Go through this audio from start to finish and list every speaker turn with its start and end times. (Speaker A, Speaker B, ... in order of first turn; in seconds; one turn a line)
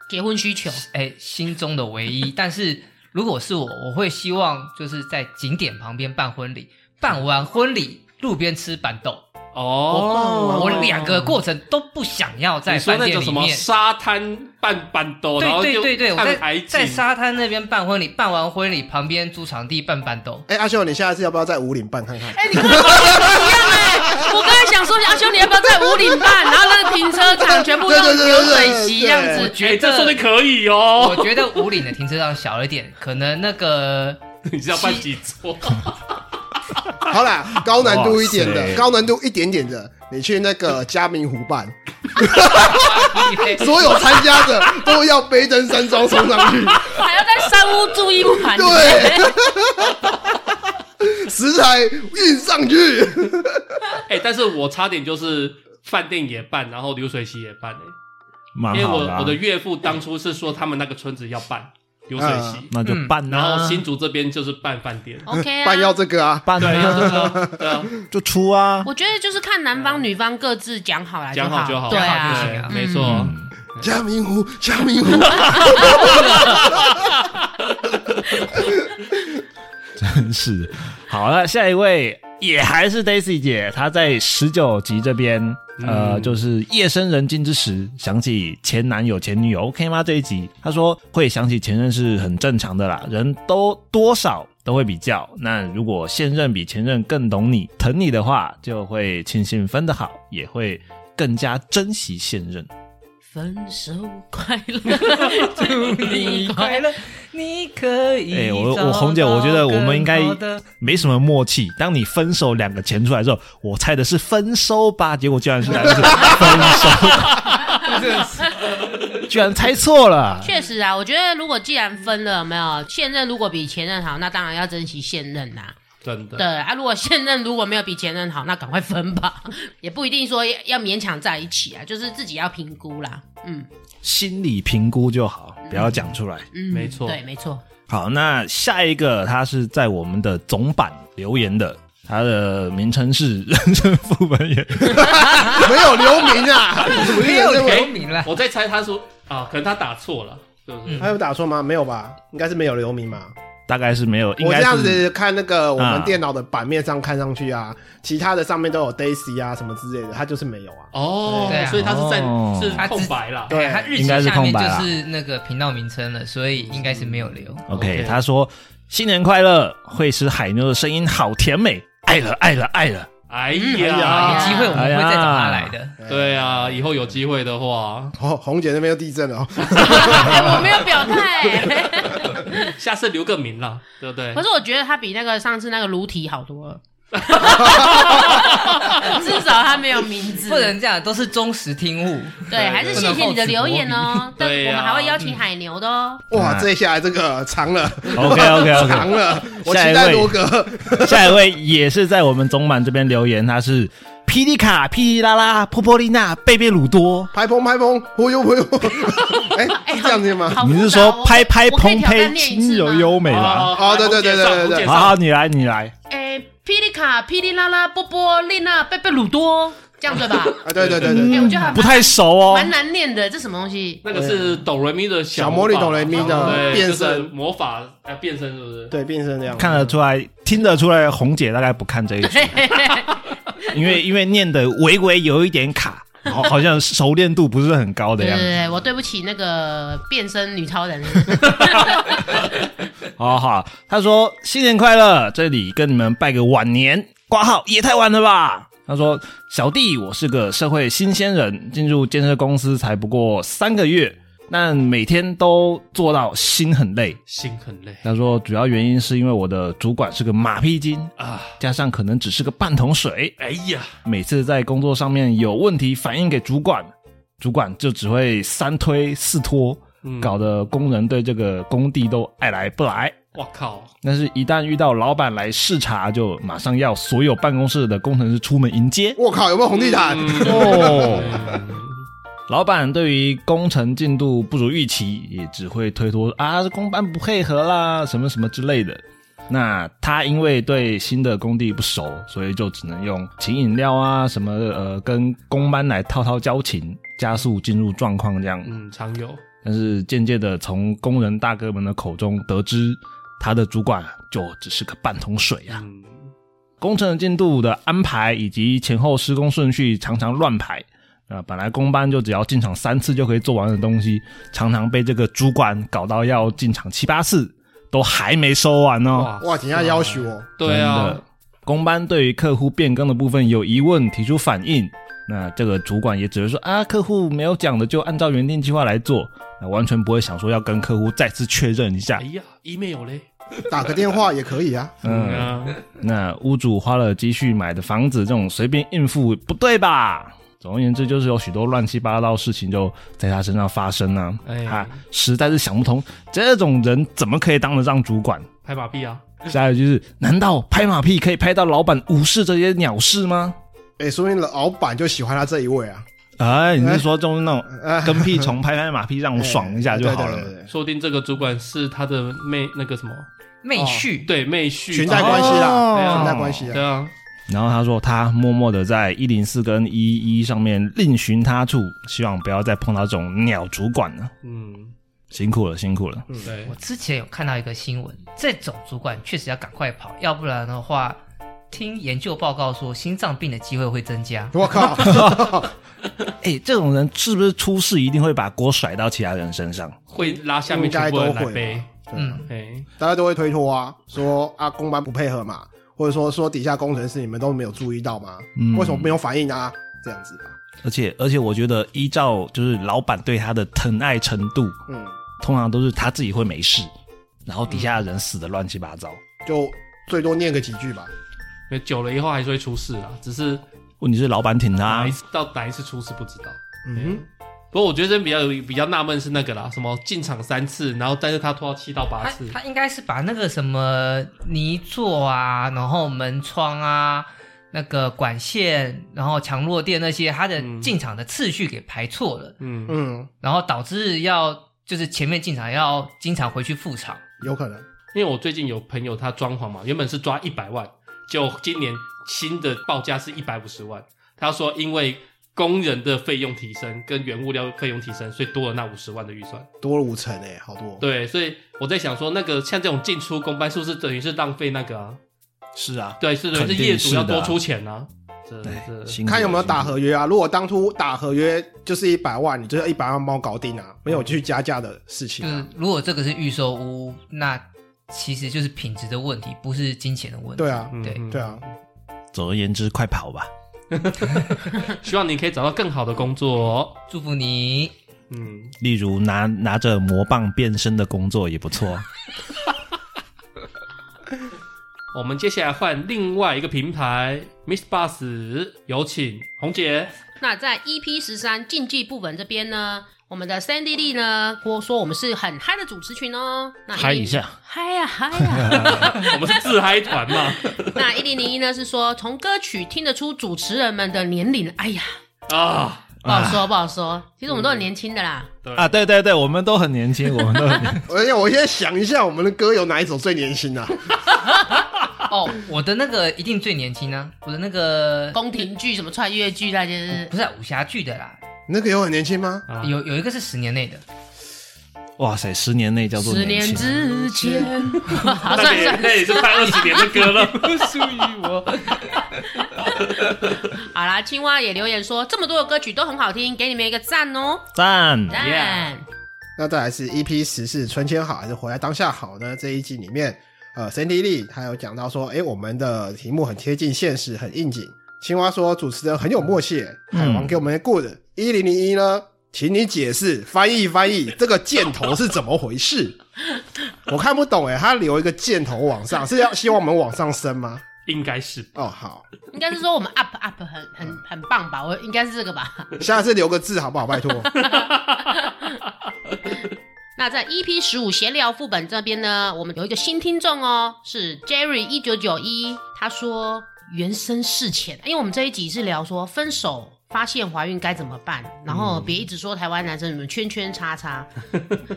Speaker A: 0.1-0.8
Speaker B: 0.7-9.2
Speaker C: 9.5-11.4
Speaker B: 9.9-13.7
Speaker D: 9.9-11.1
Speaker C: 12.7-17.0
Speaker B: 15.4-20.5
Speaker D: 20.5-24.5
Speaker A: 22.3-29.5
Speaker D: 25.8-29.5
Speaker B: 29.3-30.2
Speaker C: 29.5-31.7
Speaker B: 31.0-34.2
Speaker C: 34.5-36.2
Speaker B: 34.7-35.1
Speaker D: 37.0-47.0
Speaker E: 37.6-38.9
Speaker B: 42.2-44.0
Speaker A: 46.8-49.4
Speaker D: 48.4-50.4
Speaker D: 51.0-54.0
Speaker C: 54.1-57.9
Speaker E: 58.5-59.4
Speaker C: 58.7-62.7
Speaker D: 62.2-62.7
Speaker E: 62.7-63.9
Speaker B: 62.9-63.1
Speaker C: 63.3-65.3
Speaker A: 65.3-66.0
Speaker D: 65.4-68.1
Speaker E: 66.5-67.4
Speaker C: 66.6-67.9
Speaker E: 68.0-68.9
Speaker A: 68.8-73.3
Speaker C: 69.7-70.1
Speaker C: 71.3-73.9
Speaker B: 71.9-72.8
Speaker E: 73.0-73.5
Speaker D: 73.8-77.0
Speaker A: 75.5-76.4
Speaker C: 75.8-77.3
Speaker D: 78.5-78.9
Speaker E: 80.0-102.7
Speaker C: 85.8-86.4
Speaker A: 103.3-106.9
Speaker B: 105.1-110.7
Speaker E: 108.3-117.6
Speaker D: 115.8-116.4
Speaker B: 117.7-118.6
Speaker E: 119.2-120.6
Speaker A: 120.4-125.8
Speaker C: 126.0-126.5
Speaker A: 126.4-133.7
Speaker E: 134.0-136.5
Speaker A: 135.7-137.6
Speaker C: 136.7-137.2
Speaker E: 137.9-145.7
Speaker D: 144.9-147.9
Speaker B: 146.8-148.3
Speaker C: 147.5-151.1
Speaker B: 150.9-151.1
Speaker D: 151.0-153.3
Speaker E: 153.7-155.1
Speaker D: 154.4-161.6
Speaker E: 155.8-156.2
Speaker C: 160.9-163.6
Speaker B: 161.5-161.9
Speaker E: 161.8-162.8
Speaker B: 162.8-167.7
Speaker D: 163.5-164.0
Speaker E: 163.9-164.9
Speaker C: 166.6-168.2
Speaker E: 167.7-173.1
Speaker C: 173.3-174.7
Speaker A: 173.5-174.8
Speaker D: 173.8-174.4
Speaker B: 174.1-176.0
Speaker E: 174.7-175.8
Speaker D: 176.0-176.8
Speaker C: 176.1-178.2
Speaker D: 178.2-181.1
Speaker A: 179.8-182.7
Speaker C: 180.0-180.5
Speaker C: 182.3-184.4
Speaker A: 184.3-190.8
Speaker C: 187.2-189.2
Speaker D: 187.6-188.1
Speaker B: 190.4-194.3
Speaker A: 192.5-196.3
Speaker C: 192.5-193.3
Speaker C: 194.4-195.3
Speaker D: 196.3-201.2
Speaker E: 196.3-196.7
Speaker E: 198.1-200.3
Speaker E: 200.9-207.3
Speaker D: 207.3-210.6
Speaker A: 209.6-213.4
Speaker E: 210.6-213.7
Speaker C: 213.2-215.2
Speaker D: 213.6-214.9
Speaker E: 214.8-215.9
Speaker A: 216.1-224.0
Speaker D: 220.6-221.5
Speaker C: 220.7-221.3
Speaker E: 221.0-222.7
Speaker C: 224.0-228.9
Speaker D: 224.1-224.6
Speaker D: 225.3-227.3
Speaker A: 226.2-226.9
Speaker D: 228.9-229.9
Speaker E: 229.5-232.9
Speaker A: 232.2-233.2
Speaker E: 233.7-238.6
Speaker A: 238.2-242.4
Speaker E: 243.2-257.2
Speaker C: 257.3-258.0
Speaker E: 258.0-263.4
Speaker C: 261.2-261.6
Speaker C: 263.4-264.0
Speaker E: 264.1-273.2
Speaker C: 270.0-270.4
Speaker C: 273.4-273.9
Speaker E: 274.0-279.2
Speaker D: 279.2-281.5
Speaker C: 279.7-282.0
Speaker E: 280.4-281.4
Speaker E: 282.5-298.8
Speaker C: 298.6-299.4
Speaker E: 299.6-305.8
Speaker C: 305.7-306.3
Speaker E: 306.8-319.3
Speaker C: 319.1-321.2
Speaker D: 319.4-320.5
Speaker E: 320.6-332.2
Speaker C: 332.2-334.1
Speaker D: 333.7-335.4
Speaker E: 335.0-348.5
Speaker C: 335.1-335.8
Speaker C: 344.5-345.0
Speaker C: 348.6-349.4
Speaker E: 349.5-353.6
Speaker D: 354.0-356.1
Speaker E: 356.4-360.5
Speaker D: 356.8-357.1
Speaker D: 357.7-358.5
Speaker D: 359.4-360.7
Speaker C: 360.7-363.3
Speaker B: 363.6-364.3
Speaker D: 363.8-364.1
Speaker C: 364.3-367.1
Speaker D: 364.9-366.8
Speaker E: 365.1-366.8
Speaker E: 367.5-374.3
Speaker C: 374.4-374.9
Speaker E: 375.3-376.3
Speaker C: 376.4-376.7
Speaker B: 376.6-381.2
Speaker B: 381.7-384.9
Speaker D: 384.5-385.7
Speaker E: 385.0-385.6
Speaker E: 386.4-390.0
Speaker C: 390.1-391.9
Speaker D: 390.7-392.4
Speaker B: 392.1-392.4
Speaker C: 392.5-392.9
Speaker D: 393.0-400.6
Speaker E: 398.6-399.1
Speaker E: 400.8-404.8
Speaker D: 404.9-405.1
Speaker E: 405.4-406.9
Speaker E: 407.5-409.2
Speaker D: 409.4-411.1
Speaker C: 411.7-413.6
Speaker E: 414.0-415.2
Speaker C: 414.9-422.6
Speaker D: 416.9-417.2
Speaker B: 422.2-432.6
Speaker C: 430.6-430.9
Speaker C: 432.6-433.0
Speaker D: 432.9-433.3
Speaker B: 433.4-437.2
Speaker D: 437.4-437.8
Speaker C: 438.1-449.7
Speaker D: 449.8-451.0
Speaker C: 451.0-455.2
Speaker E: 455.8-457.6
Speaker C: 456.2-459.2
Speaker E: 458.6-460.0
Speaker D: 459.3-465.7
Speaker B: 465.4-471.2
Speaker D: 470.6-471.6
Speaker C: 470.9-471.6
Speaker E: 472.3-473.5
Speaker C: 473.9-477.0
Speaker B: 477.1-477.9
Speaker C: 478.3-478.7
Speaker E: 478.8-482.1
Speaker C: 485.1-490.1
Speaker A: 490.4-499.4
Speaker E: 496.9-497.6
Speaker E: 498.4-499.1
Speaker C: 498.7-501.0
Speaker A: 500.7-505.1
Speaker C: 505.5-506.1
Speaker E: 506.2-506.7
Speaker A: 506.3-508.5
Speaker C: 507.5-507.9
Speaker C: 508.6-508.9
Speaker E: 508.8-511.0
Speaker D: 511.1-514.0
Speaker B: 515.2-518.4
Speaker A: 518.3-520.3
Speaker B: 520.1-521.4
Speaker D: 521.7-522.7
Speaker C: 522.7-522.9
Speaker B: 522.8-524.0
Speaker E: 525.2-526.9
Speaker A: 526.2-530.3
Speaker C: 528.5-530.9
Speaker B: 530.3-532.6
Speaker A: 533.7-537.7
Speaker E: 537.8-538.4
Speaker A: 538.3-539.0
Speaker C: 538.4-538.9
Speaker D: 539.6-556.2
Speaker E: 550.1-550.5
Speaker D: 557.1-560.9
Speaker C: 561.1-561.8
Speaker D: 561.8-562.3
Speaker A: 562.5-566.0
Speaker D: 566.0-567.5
Speaker C: 567.6-568.3
Speaker A: 567.6-568.6
Speaker A: 570.2-584.3
Speaker C: 581.7-582.2